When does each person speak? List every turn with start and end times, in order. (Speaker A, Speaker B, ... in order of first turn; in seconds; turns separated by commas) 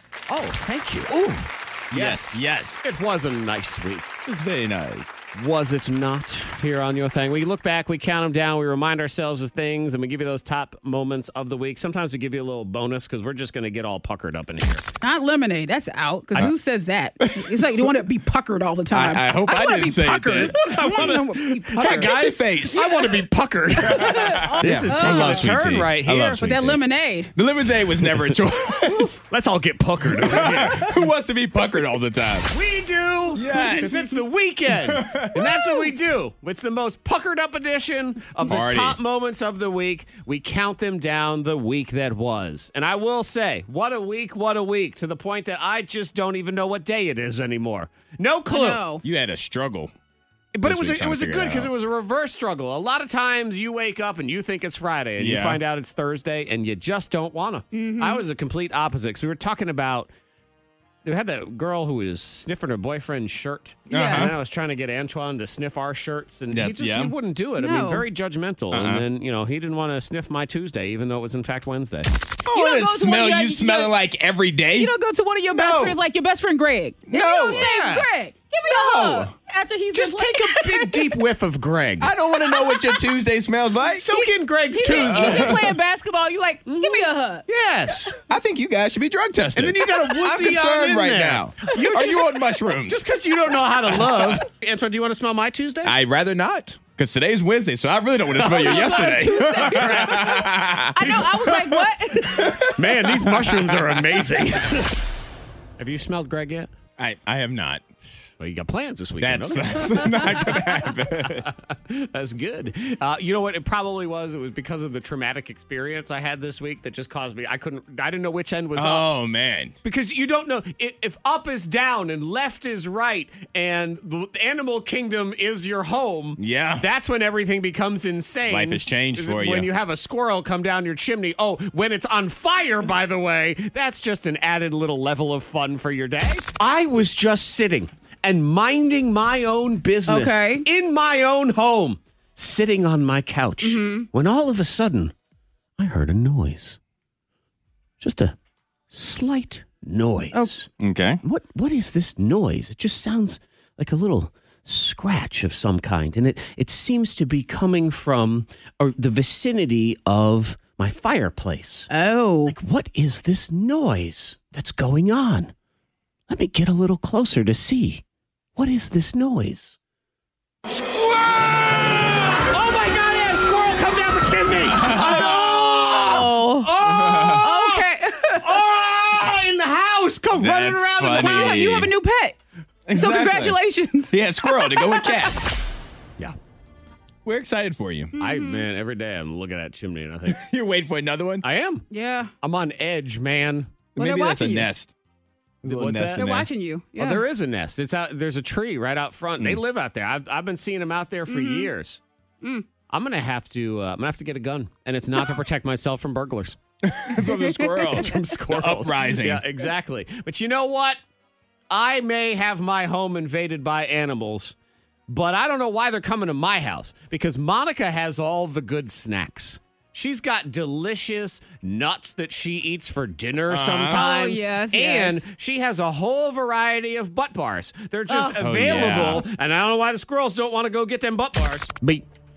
Speaker A: 0.3-4.1, Speaker B: 1.9-2.8, Speaker B: 4.2-5.1, Speaker A: 5.3-14.9, Speaker C: 15.0-22.2, Speaker B: 17.2-17.9, Speaker B: 18.9-23.2, Speaker A: 20.5-26.5, Speaker C: 23.9-25.7, Speaker B: 23.9-26.8, Speaker C: 26.3-27.3, Speaker B: 27.3-29.1, Speaker A: 28.9-31.0, Speaker B: 30.1-32.5, Speaker A: 32.5-48.8, Speaker B: 33.3-34.0, Speaker C: 33.5-34.1, Speaker B: 34.7-35.9, Speaker B: 38.4-39.0, Speaker C: 48.5-49.0, Speaker B: 49.0-49.9, Speaker A: 50.5-60.1, Speaker B: 50.6-51.7, Speaker B: 55.2-55.6, Speaker C: 57.7-58.2, Speaker A: 61.0-72.1, Speaker B: 63.9-64.3, Speaker C: 63.9-64.3, Speaker B: 66.5-67.1, Speaker C: 67.6-68.1, Speaker B: 68.7-69.0, Speaker B: 72.4-74.9, Speaker C: 72.5-73.9, Speaker C: 74.7-81.1, Speaker B: 75.5-76.0, Speaker B: 77.1-77.7, Speaker A: 77.5-78.1, Speaker B: 78.7-79.3, Speaker A: 79.9-82.1, Speaker B: 82.0-84.0, Speaker C: 82.4-83.0, Speaker A: 83.8-85.6, Speaker C: 84.1-87.4, Speaker B: 84.9-85.8, Speaker A: 86.7-88.2, Speaker B: 88.3-93.0, Speaker A: 89.5-95.9, Speaker B: 93.9-94.4, Speaker B: 95.8-104.5, Speaker A: 98.3-100.4, Speaker C: 98.4-102.7, Speaker A: 102.6-105.0, Speaker A: 105.8-106.7, Speaker B: 107.0-107.8, Speaker A: 108.4-119.1, Speaker B: 109.2-111.5, Speaker C: 110.2-110.8, Speaker B: 118.7-119.7, Speaker A: 119.8-145.1, Speaker B: 126.4-126.8, Speaker B: 128.5-129.7, Speaker C: 140.1-140.7, Speaker C: 143.6-144.1, Speaker A: 145.8-146.8, Speaker A: 148.0-148.3, Speaker A: 148.9-150.7, Speaker B: 150.8-151.2, Speaker A: 151.2-161.9, Speaker C: 161.9-162.6, Speaker A: 162.4-165.5, Speaker A: 166.3-168.0, Speaker A: 168.5-169.8, Speaker A: 170.7-181.7, Speaker B: 174.7-175.6, Speaker C: 175.9-178.6, Speaker B: 176.8-177.5, Speaker B: 180.3-181.9, Speaker C: 181.1-182.4, Speaker B: 182.9-185.4, Speaker C: 182.9-185.3, Speaker B: 187.2-188.1, Speaker C: 188.1-188.7, Speaker A: 188.2-190.4, Speaker B: 190.2-191.4, Speaker A: 191.4-191.8, Speaker C: 191.9-192.3, Speaker A: 192.4-193.7, Speaker C: 193.9-194.7, Speaker B: 193.9-194.9, Speaker A: 195.6-196.3, Speaker B: 195.6-196.5, Speaker C: 196.1-197.2, Speaker A: 196.9-202.0, Speaker C: 201.3-201.7, Speaker A: 202.9-206.6, Speaker B: 206.8-209.4, Speaker C: 207.2-207.7, Speaker A: 207.9-211.0, Speaker A: 211.7-214.6, Speaker A: 215.1-232.0, Speaker B: 223.5-224.1, Speaker C: 223.9-225.2, Speaker C: 228.1-228.6, Speaker B: 228.4-229.2